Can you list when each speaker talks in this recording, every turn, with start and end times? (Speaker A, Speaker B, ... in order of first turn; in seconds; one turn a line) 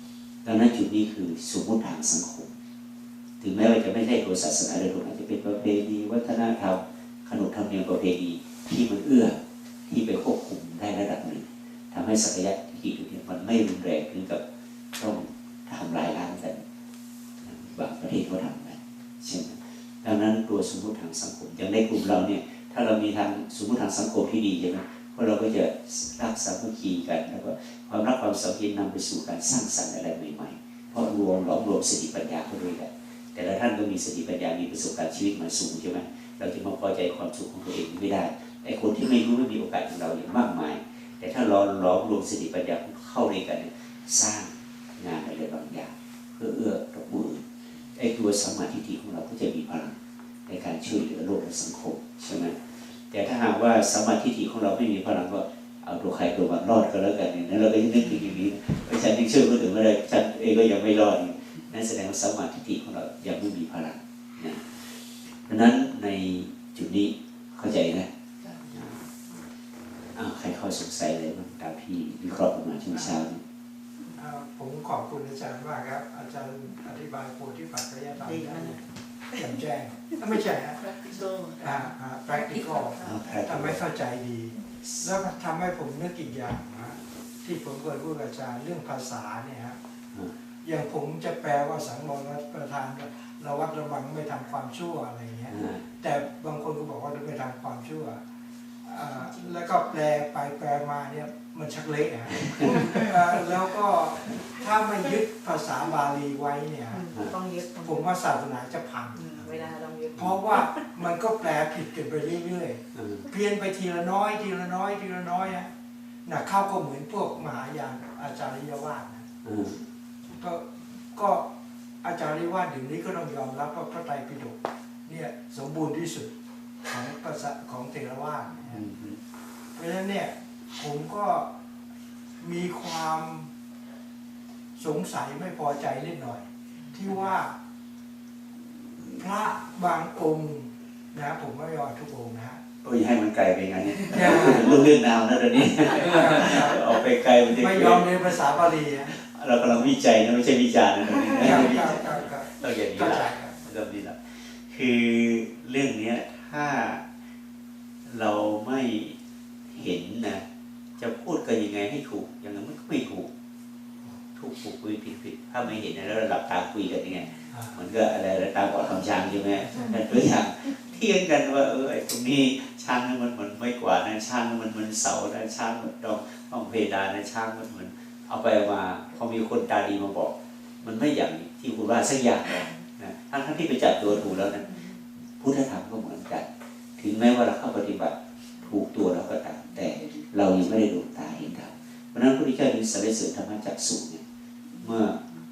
Speaker A: 0.4-2.5
Speaker A: 3.4-14.4
Speaker A: 14.9-16.6
Speaker A: 17.4-47.4
Speaker A: 47.9-52.6
Speaker A: 53.1-64.6
Speaker A: 65.5-68.1
Speaker B: 68.4-68.7
Speaker A: 68.7-69.0
Speaker A: 70.1-73.4
Speaker C: 72.9-73.2
Speaker C: 74.2-78.8
Speaker D: 78.2-78.8
Speaker C: 79.3-80.8
Speaker B: 80.8-83.0
Speaker C: 81.6-89.8
Speaker A: 83.0-83.8
Speaker C: 90.6-98.2
Speaker A: 95.5-95.8
Speaker C: 98.8-107.0
Speaker B: 99.1-99.8
Speaker A: 102.4-102.9
Speaker D: 102.6-103.1
Speaker D: 106.9-108.1
Speaker C: 107.8-109.2
Speaker D: 109.1-110.9
Speaker C: 110.1-115.7
Speaker A: 112.9-113.2
Speaker C: 116.2-119.2
Speaker A: 119.4-119.8
Speaker C: 120.3-121.4
Speaker C: 122.0-126.3
Speaker C: 126.8-128.9
Speaker A: 128.7-129.2
Speaker C: 129.7-131.5
Speaker C: 132.4-133.5
Speaker C: 134.8-137.5
Speaker C: 139.0-142.6
Speaker A: 142.8-157.0
Speaker C: 144.1-144.9
Speaker C: 146.0-146.8
Speaker C: 147.5-149.1
Speaker C: 151.3-153.6
Speaker A: 158.1-159.1
Speaker A: 159.7-160.4
Speaker A: 161.0-163.3
Speaker A: 164.3-184.7
Speaker C: 167.5-167.8
Speaker C: 169.6-169.9
Speaker A: 185.4-186.5
Speaker A: 187.0-194.2
Speaker B: 189.8-190.3
Speaker B: 194.7-195.2
Speaker A: 194.8-195.2